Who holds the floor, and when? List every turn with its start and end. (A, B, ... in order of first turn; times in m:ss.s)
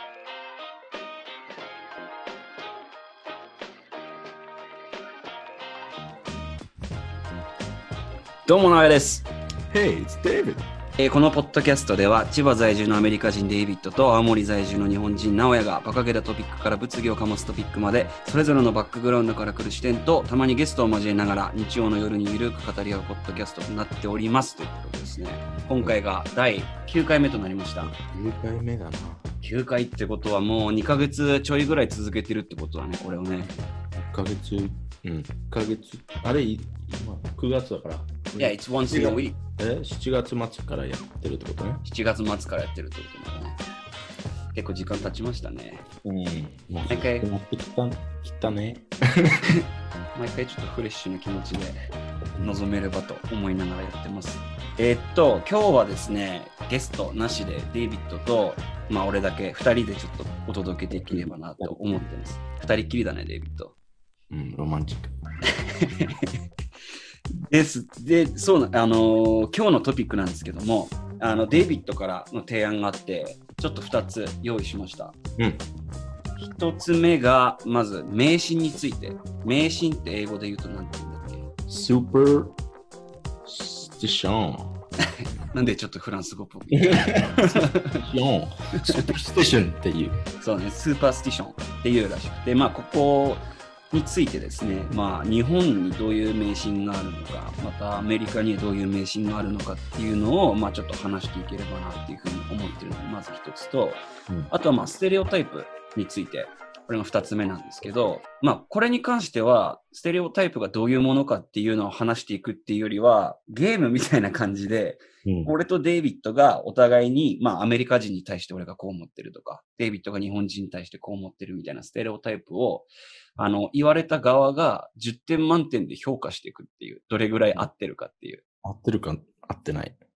0:08.5-0:09.3 A
0:09.7-0:10.6 B
0:11.0-0:27.9 A
0:25.7-0:26.0 B
0:27.8-0:29.2 B
0:29.4-0:33.5 A
0:33.5-0:41.8 B
0:38.4-0:39.4 A
0:41.8-0:43.6 A
0:44.5-0:45.8 A
0:46.0-0:49.4 B
0:46.9-0:47.3 A
0:50.2-0:51.8 A
0:52.4-1:03.8 A
1:00.9-1:01.8 B
1:04.3-1:05.2 B
1:05.5-1:06.3 A
1:07.5-1:15.2 A
1:16.4-1:21.5 A
1:21.7-1:22.6 B
1:23.5-1:24.8 B
1:25.5-1:28.0 A
1:26.9-1:30.2 B
1:28.8-1:29.1 A
1:30.4-2:08.4 A
1:55.2-1:55.5 B
2:08.6-2:10.0 B